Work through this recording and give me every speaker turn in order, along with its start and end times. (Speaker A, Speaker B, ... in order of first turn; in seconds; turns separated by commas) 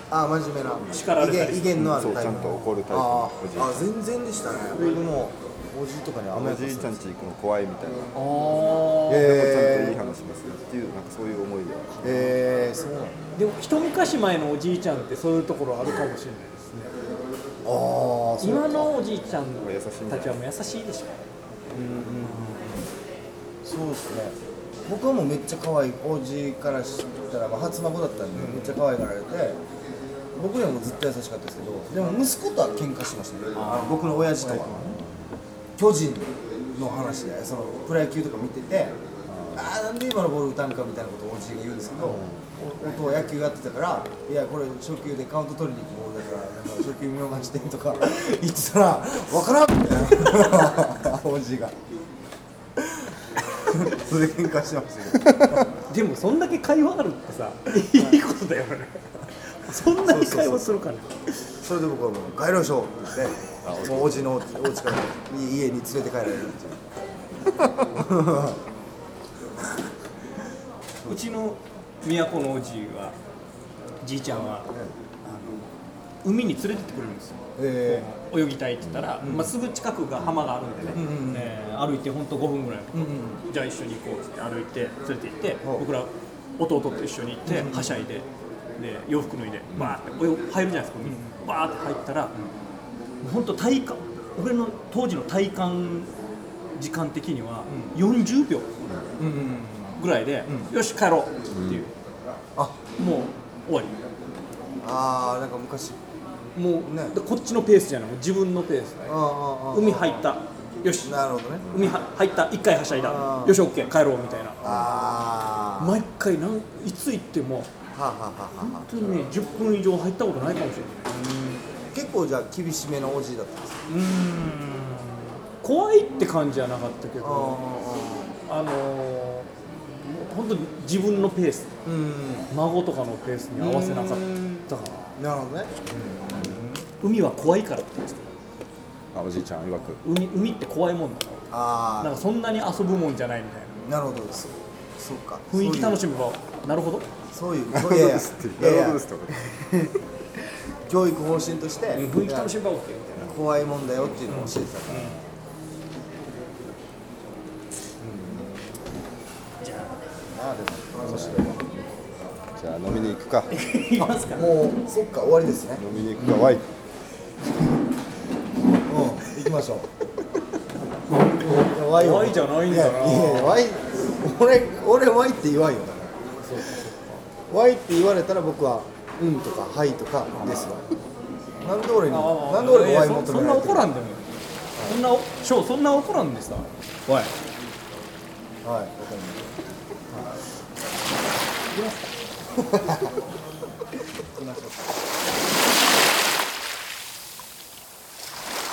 Speaker A: 0.1-7.1, Speaker B: 0.9-2.7, Speaker C: 1.7-3.9, Speaker B: 4.7-5.0, Speaker C: 6.3-8.1, Speaker B: 8.1-9.3, Speaker A: 9.1-10.0, Speaker C: 9.1-12.1, Speaker A: 12.0-13.2, Speaker B: 13.3-16.9, Speaker A: 17.6-18.9, Speaker B: 18.4-21.2, Speaker C: 19.6-20.4, Speaker A: 21.7-22.9, Speaker B: 22.2-22.7, Speaker A: 23.6-29.6, Speaker A: 30.3-35.0, Speaker C: 33.5-35.2, Speaker A: 35.8-39.0, Speaker C: 39.3-39.7, Speaker A: 39.5-51.8, Speaker C: 42.0-42.5, Speaker A: 52.8-55.7, Speaker C: 55.3-55.6, Speaker B: 55.9-61.3, Speaker A: 60.0-60.9, Speaker A: 61.6-66.8, Speaker C: 63.6-64.3, Speaker A: 67.7-68.6, Speaker B: 71.0-73.2, Speaker B: 74.0-74.7, Speaker B: 75.2-75.7, Speaker B: 76.2-92.4, Speaker A: 77.5-78.1, Speaker C: 78.8-79.1, Speaker A: 79.2-79.5, Speaker C: 80.2-80.5, Speaker A: 80.9-81.5, Speaker A: 82.9-83.4, Speaker A: 85.6-85.9, Speaker A: 87.5-87.9, Speaker A: 91.0-91.3, Speaker B: 93.2-96.1, Speaker B: 96.8-98.7, Speaker A: 97.7-98.0, Speaker A: 99.2-100.7, Speaker B: 99.3-101.9, Speaker C: 101.5-101.8, Speaker B: 103.0-104.0, Speaker A: 104.8-106.0, Speaker B: 106.5-109.1, Speaker A: 106.8-107.2, Speaker A: 109.1-110.2, Speaker B: 109.7-114.7, Speaker A: 111.0-111.7, Speaker A: 112.9-113.6, Speaker A: 114.6-116.0, Speaker B: 115.8-117.7, Speaker A: 117.9-118.9, Speaker B: 118.6-121.1, Speaker A: 121.1-123.8, Speaker B: 123.9-127.6, Speaker A: 127.2-128.3, Speaker B: 128.5-131.7, Speaker A: 131.8-132.5, Speaker B: 132.5-135.2, Speaker A: 133.6-136.8, Speaker B: 137.0-138.3, Speaker C: 139.1-140.0, Speaker B: 140.0-141.4, Speaker A: 141.5-142.2, Speaker B: 142.0-143.8, Speaker A: 143.8-146.0, Speaker B: 145.5-147.1, Speaker A: 147.3-149.0, Speaker C: 147.7-149.6, Speaker B: 149.5-149.9, Speaker A: 150.8-152.6, Speaker B: 151.9-153.3, Speaker A: 153.1-155.2, Speaker B: 154.3-155.2, Speaker A: 158.0-158.4, Speaker B: 159.6-159.9, Speaker A: 160.3-161.7, Speaker C: 161.0-161.8, Speaker C: 162.6-163.5, Speaker B: 163.5-164.6, Speaker A: 164.0-165.8, Speaker C: 165.8-166.7, Speaker A: 168.8-169.9, Speaker A: 171.3-176.8, Speaker B: 171.8-173.6, Speaker B: 176.5-177.2, Speaker A: 177.5-180.8, Speaker A: 181.6-183.9, Speaker B: 182.1-186.7, Speaker A: 184.7-185.0, Speaker A: 188.6-189.5, Speaker B: 191.7-192.0, Speaker A: 192.5-193.1, Speaker A: 194.3-195.1